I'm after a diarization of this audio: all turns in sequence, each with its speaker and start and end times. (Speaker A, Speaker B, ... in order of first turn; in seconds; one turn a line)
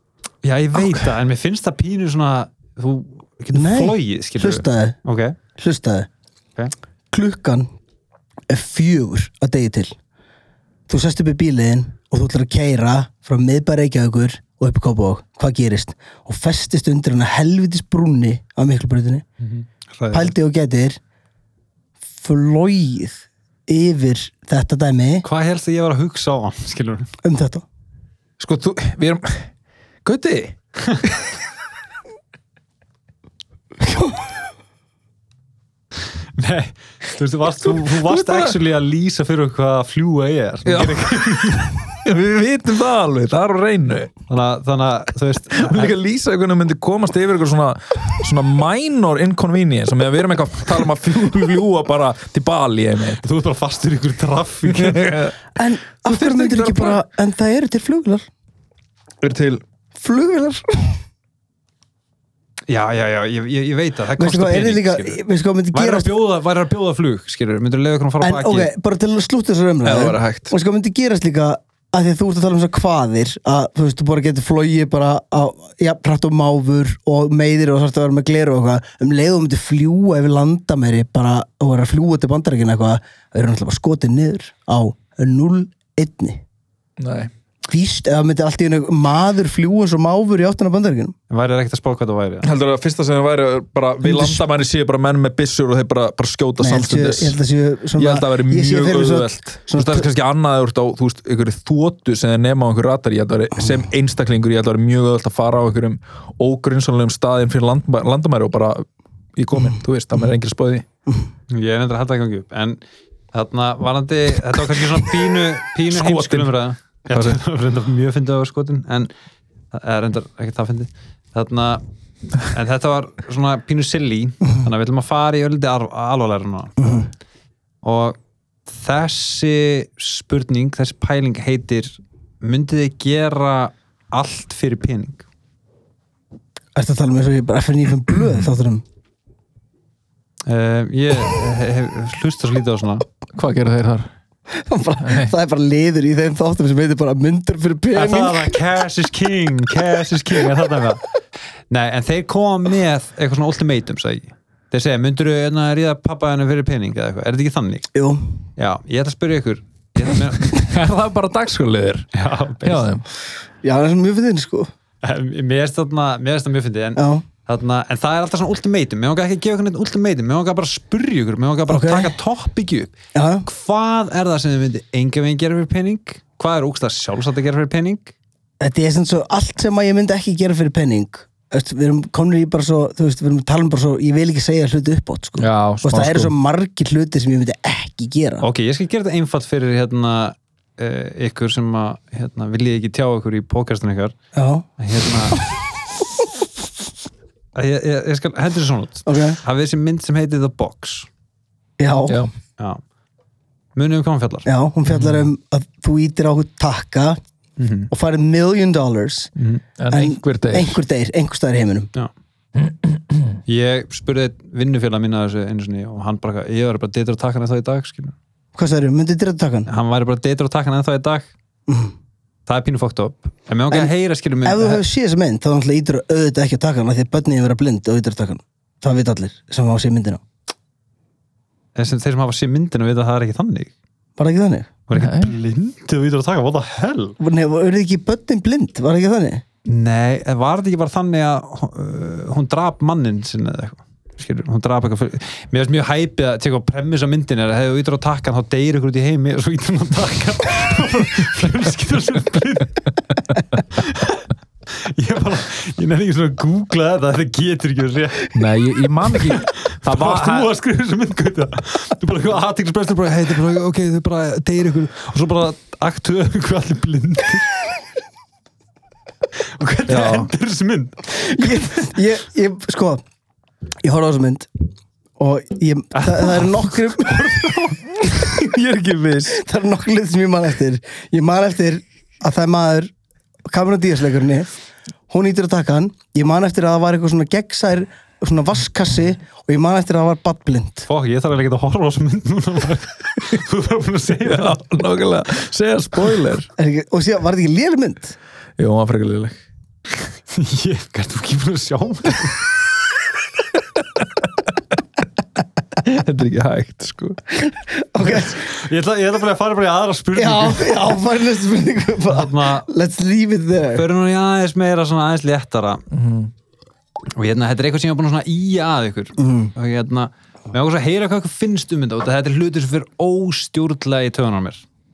Speaker A: 0.4-5.4
Speaker B: 3.5-5.0
Speaker B: 5.6-6.1
Speaker B: 7.1-7.7
Speaker B: 8.5-9.9
Speaker B: 10.9-19.2
Speaker A: 19.4-20.3
Speaker B: 20.1-21.0
Speaker B: 22.2-25.2
Speaker A: 25.2-27.1
Speaker B: 27.2-27.6
Speaker C: 28.4-29.5
Speaker C: 30.0-31.3
Speaker B: 33.9-34.1
Speaker A: 36.4-41.8
Speaker C: 37.8-38.5
Speaker C: 40.6-44.1
Speaker A: 44.3-45.9
Speaker C: 45.5-53.2
Speaker A: 53.2-55.2
Speaker C: 54.7-55.4
Speaker B: 55.5-58.3
Speaker C: 56.0-57.0
Speaker C: 59.2-59.6
Speaker B: 60.0-61.0
Speaker A: 62.7-65.2
Speaker B: 64.2-66.1
Speaker A: 65.7-68.7
Speaker B: 68.2-86.4
Speaker C: 69.8-70.5
Speaker C: 87.0-87.3
Speaker B: 87.7-91.2
Speaker A: 91.3-92.5
Speaker C: 92.4-97.4
Speaker B: 94.0-94.4
Speaker B: 96.6-100.1
Speaker C: 98.0-108.8
Speaker C: 109.3-110.8
Speaker A: 111.5-112.8
Speaker A: 113.3-119.1
Speaker C: 115.9-116.5
Speaker C: 117.1-117.4
Speaker A: 119.7-121.8
Speaker A: 122.4-127.0
Speaker B: 126.8-127.1
Speaker A: 127.8-135.2
Speaker B: 136.7-138.8
Speaker A: 140.4-143.0
Speaker C: 143.3-144.1
Speaker B: 144.5-148.6
Speaker C: 145.0-145.3
Speaker A: 147.9-151.0
Speaker A: 151.7-157.9
Speaker B: 157.9-158.2
Speaker A: 158.6-160.6
Speaker C: 160.4-162.1
Speaker A: 162.1-162.9
Speaker C: 162.6-163.0
Speaker B: 163.6-164.7
Speaker A: 165.0-172.9
Speaker B: 166.9-167.2
Speaker B: 171.7-172.1
Speaker B: 173.1-173.4
Speaker A: 173.4-178.1
Speaker B: 178.6-188.4
Speaker C: 185.4-186.3
Speaker A: 188.4-194.2
Speaker B: 194.3-194.7
Speaker A: 194.8-195.5
Speaker A: 197.5-201.1
Speaker B: 199.1-199.4
Speaker B: 201.8-202.2
Speaker A: 203.8-204.5
Speaker B: 204.4-207.2
Speaker A: 207.6-207.9
Speaker B: 207.9-209.3
Speaker A: 209.4-209.6
Speaker C: 209.8-210.8
Speaker B: 209.9-211.9
Speaker C: 212.6-213.4
Speaker A: 213.5-218.2
Speaker B: 218.6-219.7
Speaker A: 219.7-221.3
Speaker B: 221.7-221.9
Speaker A: 222.4-224.8
Speaker B: 224.4-230.2
Speaker A: 231.7-233.7
Speaker B: 234.2-234.7
Speaker A: 234.9-237.2
Speaker C: 234.9-235.3
Speaker B: 237.2-239.4
Speaker A: 239.7-252.8
Speaker A: 253.7-258.4
Speaker C: 258.3-260.5
Speaker A: 259.1-267.5
Speaker A: 269.6-271.9
Speaker C: 269.9-270.3
Speaker B: 271.2-273.0
Speaker B: 273.8-274.5
Speaker B: 275.2-277.5
Speaker A: 275.9-277.8
Speaker C: 278.1-279.4
Speaker B: 279.3-282.9
Speaker B: 283.5-284.5
Speaker B: 285.1-290.9
Speaker A: 290.9-294.6
Speaker C: 294.2-296.5
Speaker B: 296.6-298.2
Speaker C: 298.6-299.4
Speaker A: 300.3-302.4
Speaker C: 305.8-307.2
Speaker B: 307.7-308.4
Speaker A: 308.0-310.9
Speaker B: 310.1-313.8
Speaker A: 312.1-312.7
Speaker A: 313.7-315.8
Speaker C: 315.9-316.3
Speaker A: 317.1-324.6
Speaker B: 319.2-319.5